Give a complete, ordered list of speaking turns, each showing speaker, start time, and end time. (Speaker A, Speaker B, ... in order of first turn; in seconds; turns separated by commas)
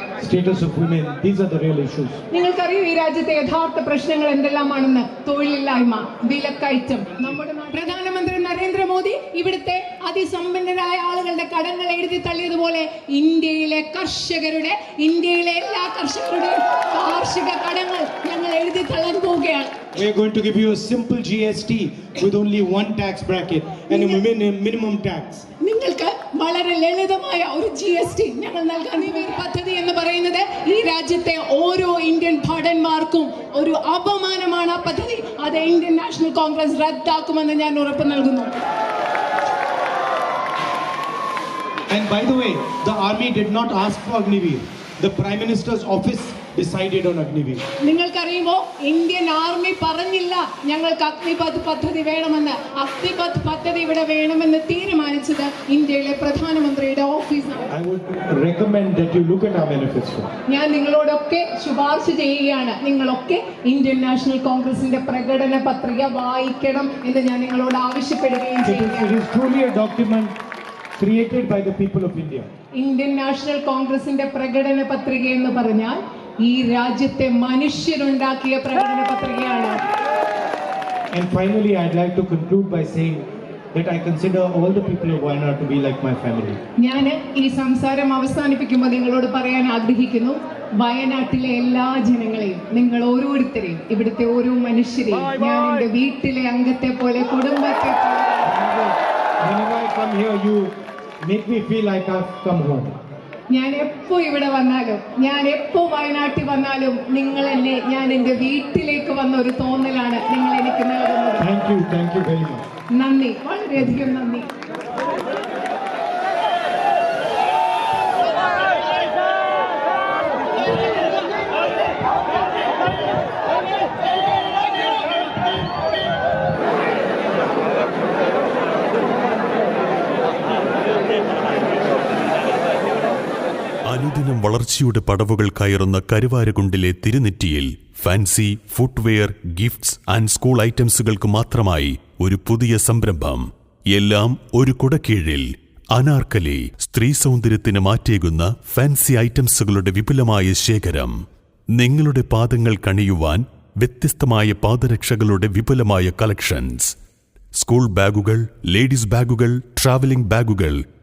Speaker A: 0.2-2.2, Speaker B: 2.3-19.8, Speaker A: 19.9-25.5, Speaker B: 23.9-24.2, Speaker B: 25.6-38.5, Speaker A: 41.9-47.6, Speaker B: 47.8-57.7, Speaker A: 57.7-60.3, Speaker B: 60.5-69.1, Speaker A: 68.6-70.3, Speaker A: 71.0-72.5, Speaker B: 72.8-79.8, Speaker A: 81.1-86.6, Speaker B: 86.8-98.5, Speaker A: 98.4-100.7, Speaker A: 101.2-103.0, Speaker B: 103.5-111.4, Speaker A: 111.4-112.7, Speaker B: 112.9-114.5, Speaker C: 133.8-151.1, Speaker C: 151.7-156.9, Speaker C: 157.6-160.8